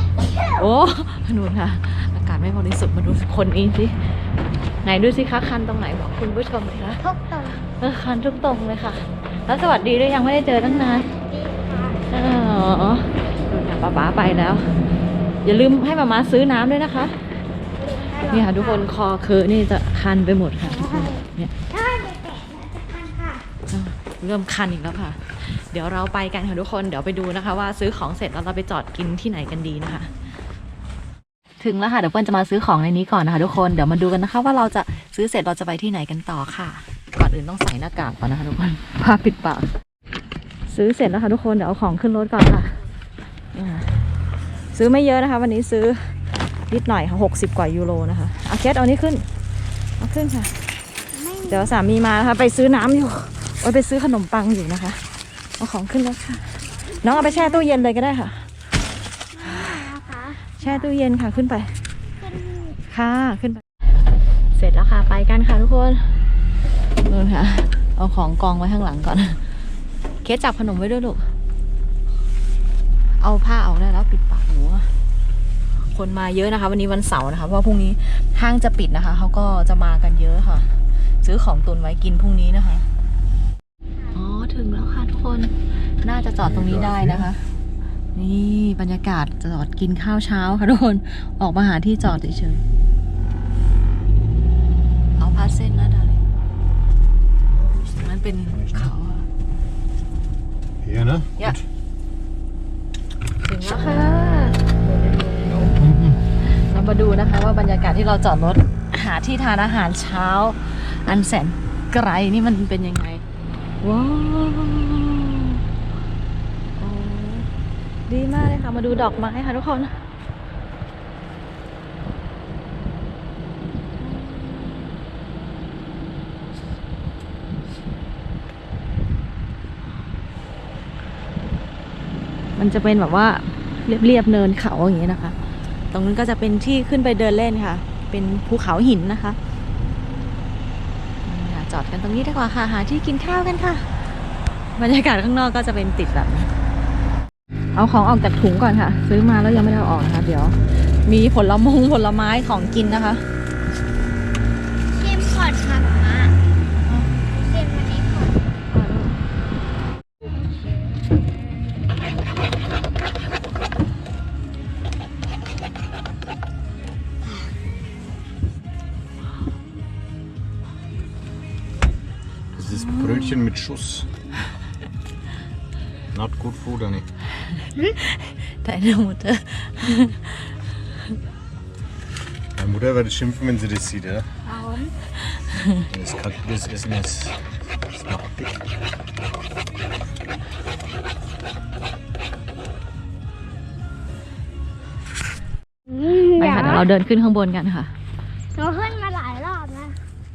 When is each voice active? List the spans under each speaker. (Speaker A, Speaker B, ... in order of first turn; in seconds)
Speaker A: 0.4-4.2, 4.8-7.1, 7.7-11.1, 12.1-14.7, 15.4-17.1, 18.3-21.5, 23.7-30.1, 31.6-39.7, 40.7-42.8, 43.5-43.9, 44.7-46.1, 46.7-49.2, 50.0-50.6, 51.5-55.0, 55.6-58.5, 60.6-61.8, 62.9-63.6, 64.5-66.2, 67.0-69.4, 70.2-71.3, 73.2-74.9, 75.9-82.9, 84.1-87.4, 88.1-92.6, 95.2-96.2, 97.8-99.3, 103.4-105.8, 106.4-113.2, 113.8-115.6, 116.8-117.5, 118.1-119.9, 124.0-124.9, 132.6-135.4, 135.9-139.4, 141.2-143.9, 144.8-146.5, 147.7-153.2, 158.7-159.2, 172.7-173.5, 177.7-180.5, 185.3-185.8, 196.3-197.9
Speaker B: 7.0-7.7, 10.6-12.0, 17.8-18.9, 20.7-23.4, 51.1-51.8, 56.9-57.8, 59.3-60.4, 62.2-62.8, 154.9-156.3, 157.4-158.4, 184.4-184.9, 195.9-196.9, 198.5-200.0
Speaker C: 86.4-87.3, 98.5-98.9, 100.8-101.6, 105.6-106.2, 172.5-174.1, 176.1-177.1, 182.5-184.3, 185.9-188.6